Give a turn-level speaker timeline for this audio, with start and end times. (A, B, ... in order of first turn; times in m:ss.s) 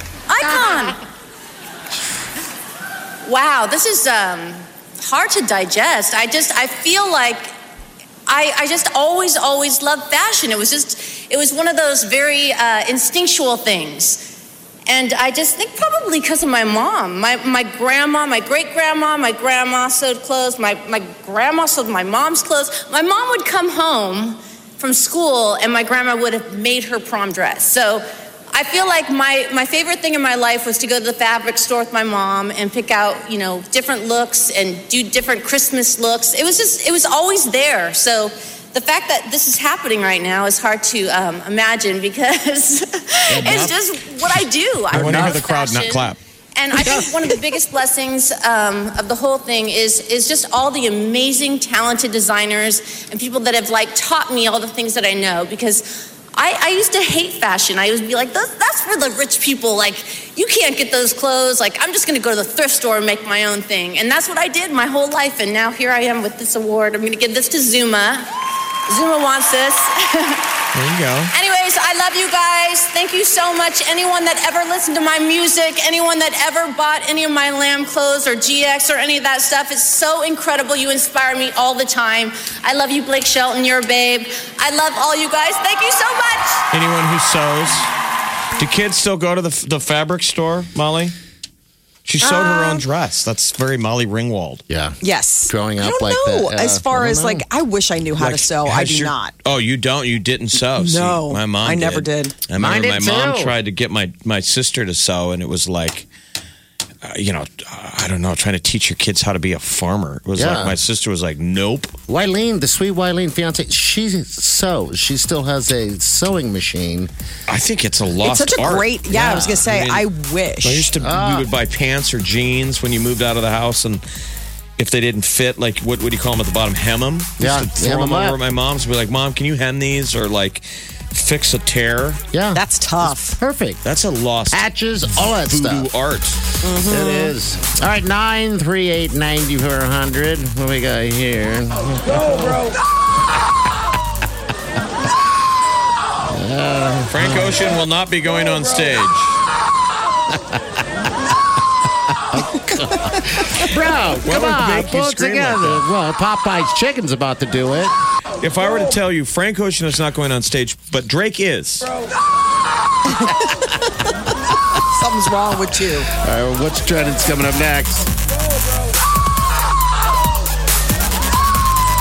0:00.3-0:01.0 A
0:03.2-0:07.5 A
0:08.3-0:14.2 A
0:14.9-1:08.2 A
0:43.3-0:43.7 B
0:43.3-0:43.7 C
0:44.9-0:46.2 B
0:44.9-0:45.4 C
0:46.8-0:47.1 C
1:08.9-1:10.5 A
1:10.7-1:11.3 B
1:11.3-1:26.6 A
1:26.7-1:27.9 B
1:28.6-1:31.2 B
1:32.0-1:34.6 B
1:32.2-1:32.8 D
1:34.7-1:37.4 C
1:35.0-1:39.3 D
1:38.2-1:46.1 B
1:40.5-1:42.4 D
1:42.5-1:43.6 C
1:47.0-1:52.0 B
1:50.4-1:50.8 C
1:52.1-1:57.1 C
1:57.5-2:00.0 B
1:58.2-2:00.9 D
2:00.6-2:04.0 B
2:01.0-2:01.5 C
2:04.8-2:12.2 B
2:07.4-2:08.4 C
2:12.3-2:13.8 C
2:12.5-2:13.4 D
2:13.8-2:16.4 B
2:14.5-2:15.9 C
2:16.6-2:17.3 D
2:16.8-2:22.6 C
2:26.2-2:27.7 C
2:27.1-2:29.4 B
2:30.3-2:30.8 C
2:32.3-2:37.9 C
2:34.2-2:35.8 B
2:38.4-2:41.9 B
2:44.8-2:46.1 D
2:46.2-2:48.1 C